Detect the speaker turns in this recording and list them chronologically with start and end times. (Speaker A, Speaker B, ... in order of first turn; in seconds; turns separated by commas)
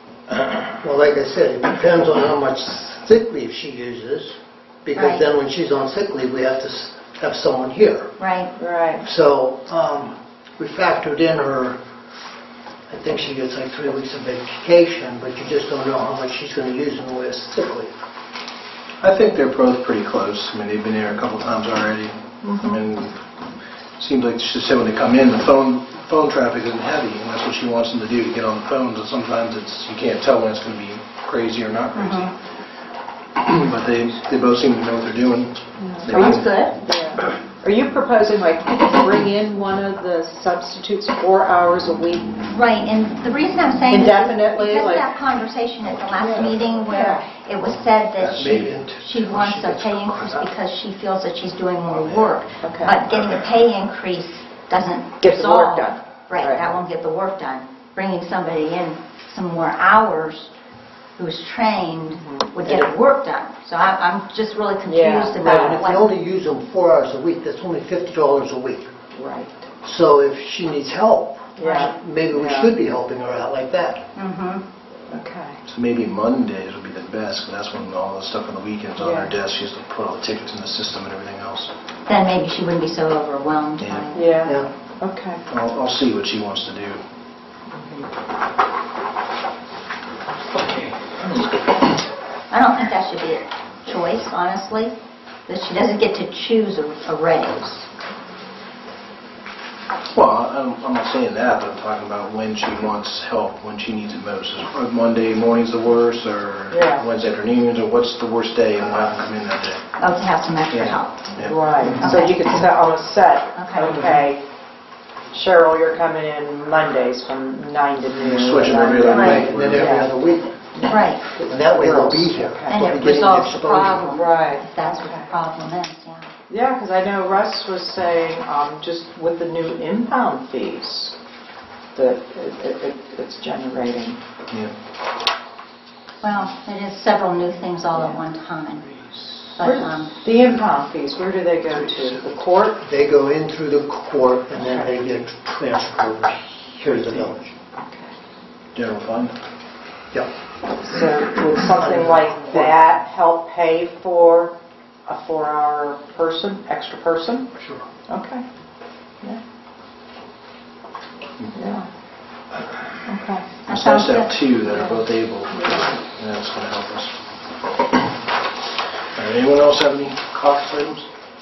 Speaker A: 0.7-8.2, Speaker B: 4.9-5.2, Speaker B: 8.2-8.5, Speaker C: 8.6-9.1, Speaker A: 9.0-11.8, Speaker A: 12.9-17.9, Speaker D: 19.0-23.2, Speaker C: 22.4-22.8, Speaker D: 24.0-32.4, Speaker B: 31.9-32.3, Speaker D: 33.4-36.5, Speaker C: 35.8-42.3, Speaker B: 36.1-36.8, Speaker B: 42.5-60.5, Speaker C: 43.9-45.1, Speaker C: 46.2-47.3, Speaker D: 48.2-48.7, Speaker A: 48.2-50.3, Speaker D: 52.0-52.4, Speaker C: 52.6-53.0, Speaker C: 55.2-56.6, Speaker B: 61.2-66.1, Speaker C: 64.8-65.8, Speaker A: 65.3-68.9, Speaker C: 69.1-69.7, Speaker A: 69.8-74.1, Speaker C: 71.6-72.7, Speaker B: 74.2-74.6, Speaker C: 75.1-75.6, Speaker D: 75.7-81.7, Speaker C: 79.0-79.3, Speaker B: 82.1-84.5, Speaker D: 83.8-84.1, Speaker C: 84.1-85.4, Speaker D: 85.5-87.0, Speaker B: 92.5-94.9, Speaker B: 95.5-97.9, Speaker D: 100.1-109.8, Speaker C: 106.7-107.0, Speaker B: 110.0-111.3, Speaker D: 110.7-111.6, Speaker C: 111.5-114.4, Speaker B: 112.0-112.5, Speaker B: 113.5-114.0, Speaker C: 115.3-120.1, Speaker D: 118.2-120.0, Speaker A: 119.0-124.0, Speaker C: 120.8-122.9, Speaker B: 120.8-121.2, Speaker B: 122.7-126.3, Speaker C: 124.1-125.2, Speaker C: 126.5-131.2, Speaker C: 131.9-134.2, Speaker B: 136.2-139.0, Speaker B: 139.6-140.2, Speaker C: 139.6-142.8, Speaker A: 142.8-147.5, Speaker C: 144.6-144.9, Speaker C: 147.8-148.1, Speaker D: 148.8-149.3, Speaker C: 150.8-154.6, Speaker A: 151.8-152.8, Speaker C: 155.1-157.5, Speaker A: 157.6-157.8, Speaker C: 158.1-158.4, Speaker C: 161.5-161.9, Speaker C: 163.1-163.5, Speaker B: 163.7-164.3, Speaker D: 163.7-167.1, Speaker C: 165.5-165.9, Speaker D: 169.2-171.1